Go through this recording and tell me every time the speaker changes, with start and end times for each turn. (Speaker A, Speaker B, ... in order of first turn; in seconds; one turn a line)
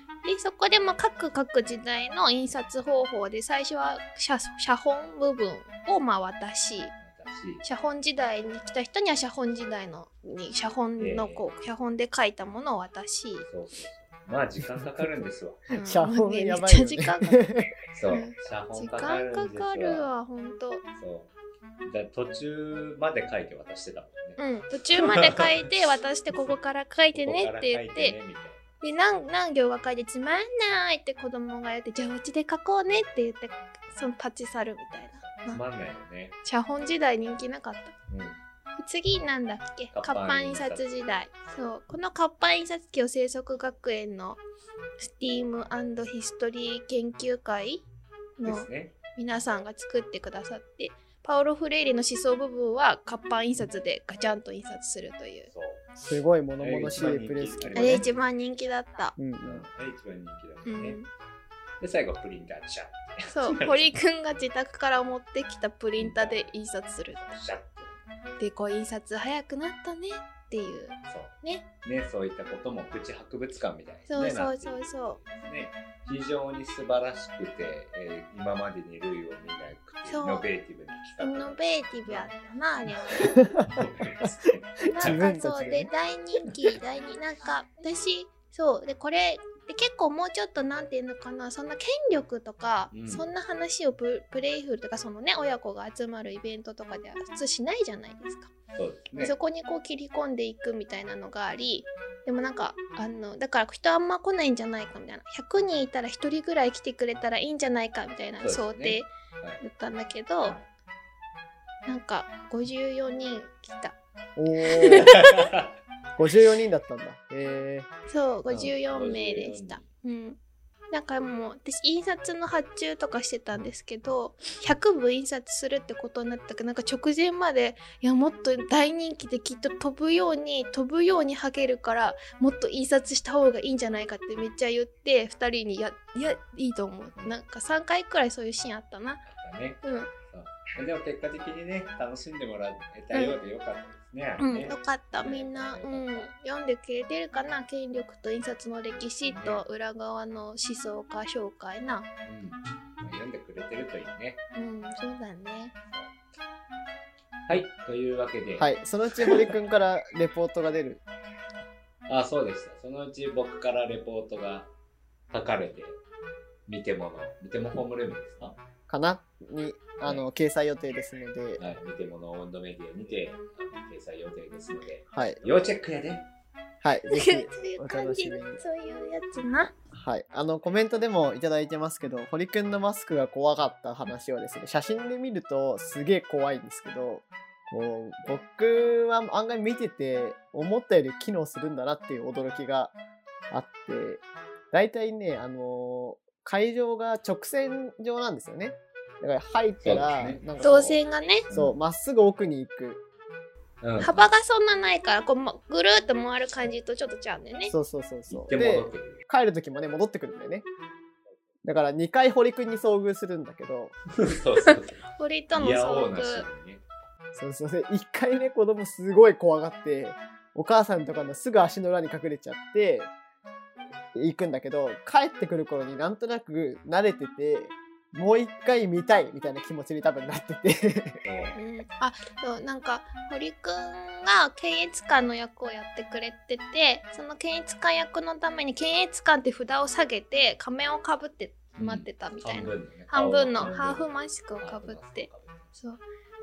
Speaker A: 0.2-7.0
Speaker B: 7.0-7.6
Speaker A: 7.6-13.5
Speaker B: 11.0-11.4
Speaker B: 13.4-15.6
Speaker C: 15.7-17.7
Speaker A: 15.7-17.5
Speaker B: 17.9-20.1
Speaker A: 18.1-20.9
Speaker B: 20.9-24.4
Speaker A: 24.4-28.2
Speaker B: 24.9-25.6
Speaker B: 27.1-28.8
Speaker A: 28.8-35.6
Speaker B: 35.2-36.4
Speaker A: 36.5-38.0
Speaker B: 38.1-38.4
Speaker A: 38.8-44.4
Speaker B: 39.9-41.0
Speaker A: 45.0-47.9
Speaker A: 48.4-55.5
Speaker B: 48.4-49.0
Speaker B: 55.5-55.9
Speaker C: 56.0-58.1
Speaker B: 56.6-58.3
Speaker A: 57.8-59.2
Speaker C: 59.2-59.6
Speaker B: 59.4-61.0
Speaker A: 60.6-61.1
Speaker B: 61.8-64.0
Speaker A: 63.3-67.3
Speaker B: 66.0-66.5
Speaker B: 67.2-68.1
Speaker A: 68.4-71.7
Speaker B: 71.1-82.3
Speaker A: 74.1-75.2
Speaker A: 80.1-80.5
Speaker A: 81.2-83.4
Speaker B: 83.1-85.3
Speaker C: 84.8-85.9
Speaker A: 84.9-98.5
Speaker B: 92.9-93.3
Speaker B: 98.8-99.3
Speaker A: 99.2-110.6
Speaker B: 108.4-109.6
Speaker A: 111.9-114.0
Speaker C: 114.4-115.2
Speaker A: 114.7-115.4
Speaker B: 115.1-115.7
Speaker C: 116.2-117.9
Speaker A: 118.1-120.4
Speaker B: 118.5-119.9
Speaker A: 120.9-139.2
Speaker B: 139.2-146.3
Speaker A: 139.8-140.1
Speaker A: 143.1-143.4
Speaker A: 144.4-152.1
Speaker B: 149.3-149.6
Speaker B: 152.2-154.4
Speaker A: 154.5-155.8
Speaker B: 155.9-156.2
Speaker B: 157.5-158.7
Speaker C: 158.6-161.0
Speaker B: 159.2-159.5
Speaker B: 162.1-164.7
Speaker B: 165.3-166.0
Speaker B: 166.7-168.6
Speaker C: 168.9-171.6
Speaker B: 171.6-176.3
Speaker C: 175.1-175.4
Speaker C: 176.8-178.6
Speaker A: 177.1-179.8
Speaker C: 179.9-193.0
Speaker C: 193.5-201.0
Speaker B: 199.8-200.4
Speaker A: 200.6-201.5
Speaker B: 201.5-201.7
Speaker C: 201.5-203.0
Speaker B: 203.8-204.3
Speaker A: 204.0-207.7
Speaker C: 207.7-210.7
Speaker B: 208.3-209.2
Speaker C: 211.6-214.0
Speaker B: 214.1-216.8
Speaker A: 215.2-216.4
Speaker C: 217.3-223.1
Speaker C: 224.1-231.2
Speaker B: 231.2-231.6
Speaker A: 231.6-245.3
Speaker B: 241.8-245.7